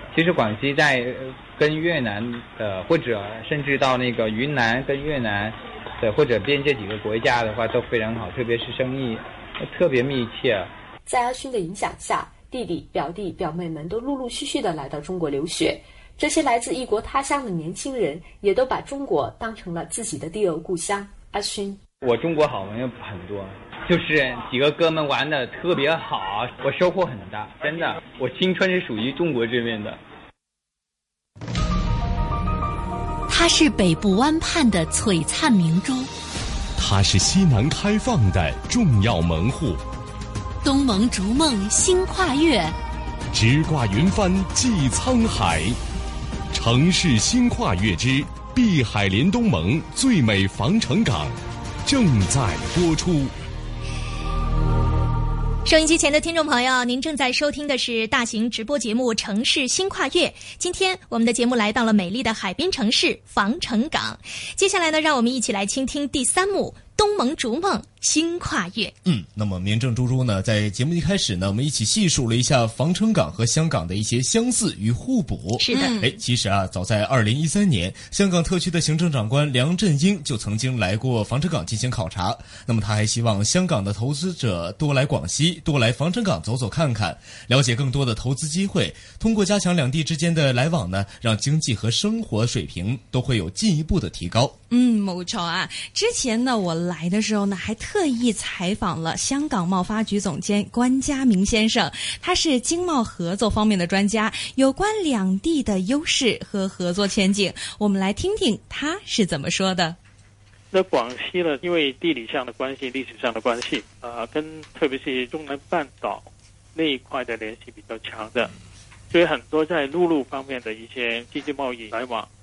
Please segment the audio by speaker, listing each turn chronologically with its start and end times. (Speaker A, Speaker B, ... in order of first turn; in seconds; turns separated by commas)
Speaker A: 0.1-10.7, Speaker B: 11.1-21.8, Speaker A: 22.0-30.0, Speaker C: 33.3-36.0, Speaker D: 36.8-39.8, Speaker C: 40.6-42.7, Speaker D: 43.3-45.8, Speaker D: 46.5-53.3, Speaker E: 55.6-68.9, Speaker F: 69.0-94.5, Speaker E: 75.6-76.0, Speaker G: 75.7-76.1, Speaker G: 94.7-110.0, Speaker H: 110.7-118.5, Speaker H: 119.1-122.3